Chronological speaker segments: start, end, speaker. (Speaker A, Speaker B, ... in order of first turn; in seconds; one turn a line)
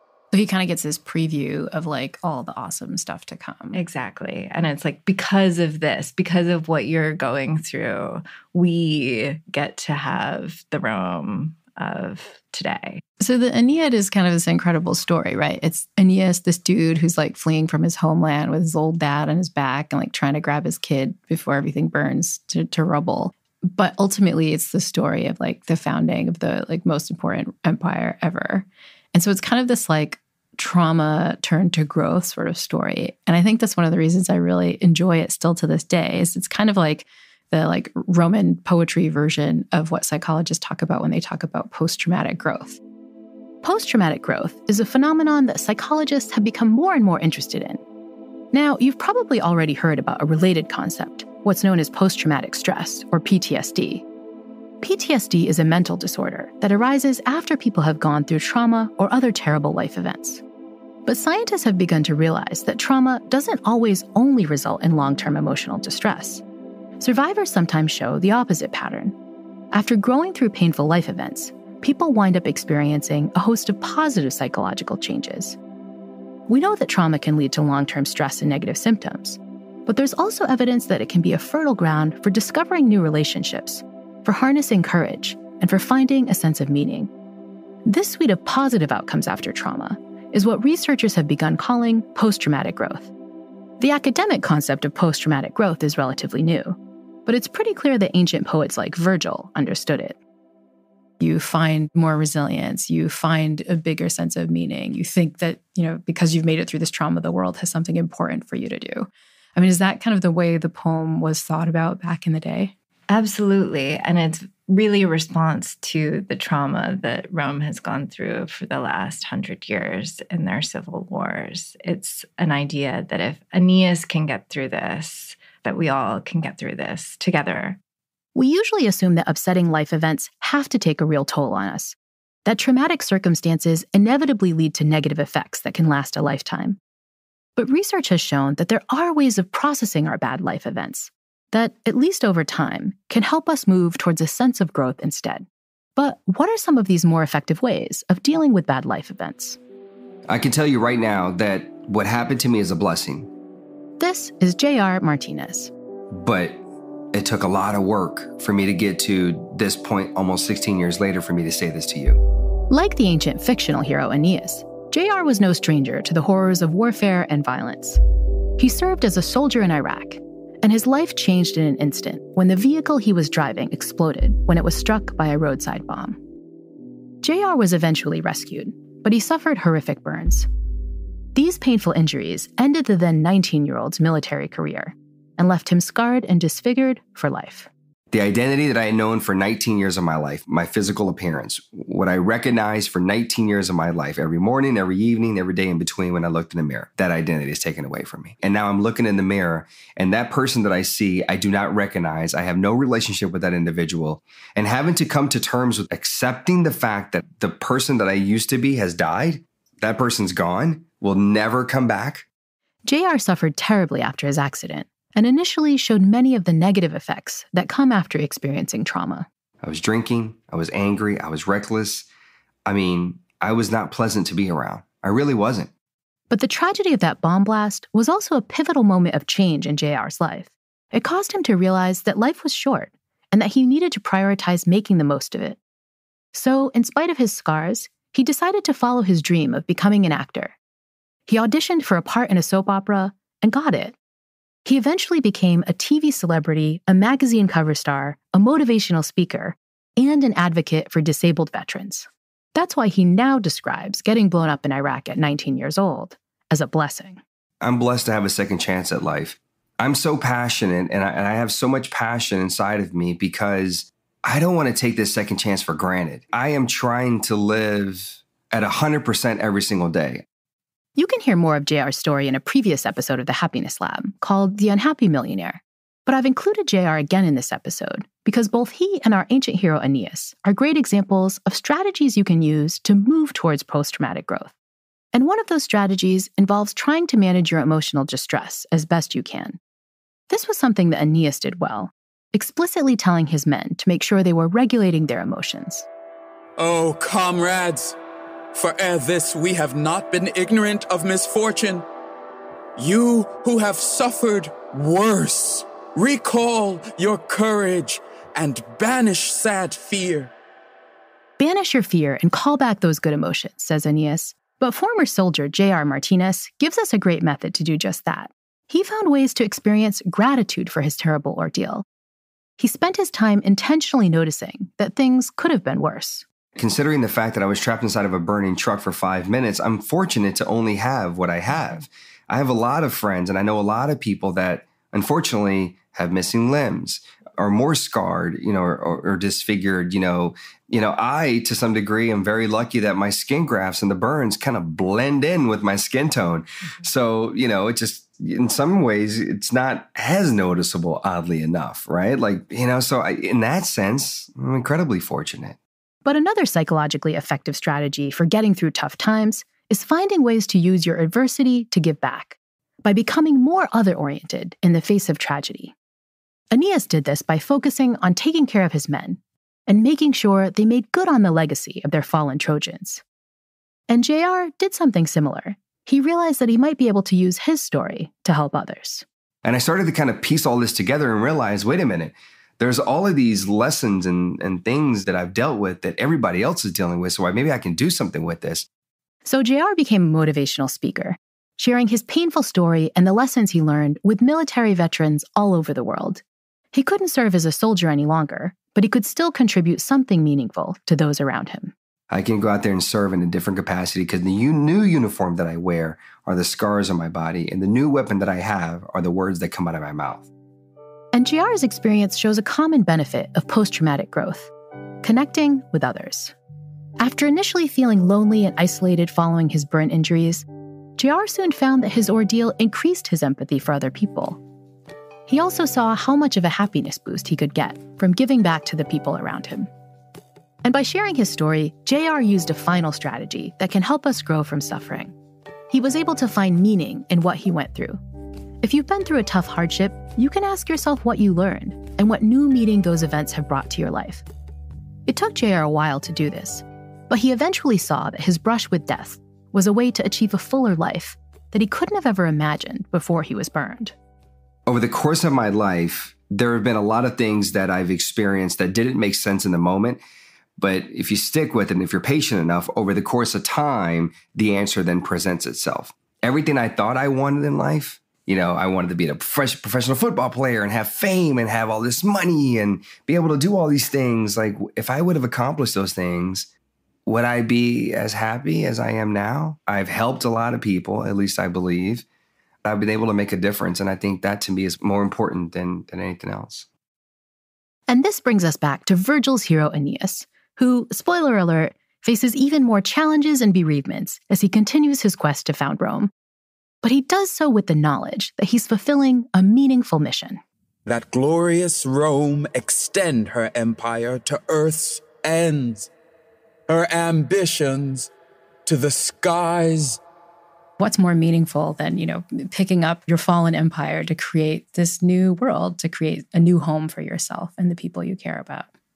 Speaker A: 0.3-3.8
Speaker B: 3.7-13.0
Speaker A: 13.2-42.8
Speaker A: 43.6-47.8
Speaker A: 48.5-54.0
Speaker A: 54.8-60.4
Speaker A: 61.1-66.4
Speaker A: 67.0-69.2
Speaker A: 69.7-75.6
Speaker A: 76.5-87.1
Speaker A: 87.9-93.1
Speaker A: 93.8-100.2
Speaker A: 101.2-112.7
Speaker B: 113.1-127.8
Speaker A: 128.3-136.8
Speaker A: 137.6-149.6
Speaker C: 150.3-153.3
Speaker A: 154.0-155.7
Speaker C: 156.1-162.2
Speaker A: 162.7-168.0
Speaker A: 168.6-176.2
Speaker A: 177.2-180.5
Speaker A: 181.3-187.7
Speaker C: 188.1-212.3
Speaker A: 212.8-219.3
Speaker C: 219.6-222.1
Speaker C: 222.7-225.7
Speaker A: 226.3-235.6
Speaker A: 236.3-240.6
Speaker A: 241.3-244.0
Speaker A: 244.7-257.2
Speaker C: 257.6-270.2
Speaker A: 271.0-284.5
Speaker A: 285.1-289.6
Speaker A: 290.3-295.9
Speaker D: 296.6-298.0
Speaker D: 298.5-301.9
Speaker D: 302.8-310.3
Speaker A: 311.4-321.9
Speaker A: 322.6-326.2
Speaker C: 326.6-355.6
Speaker A: 356.1-365.7
Speaker A: 366.5-373.0
Speaker A: 373.9-379.1
Speaker C: 379.4-388.7
Speaker A: 389.2-396.2
Speaker A: 396.7-401.7
Speaker C: 402.1-410.3
Speaker A: 411.1-416.4
Speaker A: 417.0-420.5
Speaker A: 421.0-424.4
Speaker A: 425.3-429.7
Speaker A: 430.6-435.1
Speaker A: 435.7-438.0
Speaker A: 438.6-444.2
Speaker A: 445.1-453.9
Speaker C: 454.7-460.0
Speaker C: 460.6-476.5
Speaker C: 477.1-482.1
Speaker C: 482.6-486.7
Speaker A: 487.9-496.1
Speaker A: 496.8-500.4
Speaker D: 500.9-505.9
Speaker D: 506.7-508.1
Speaker D: 508.7-510.0
Speaker A: 510.8-518.7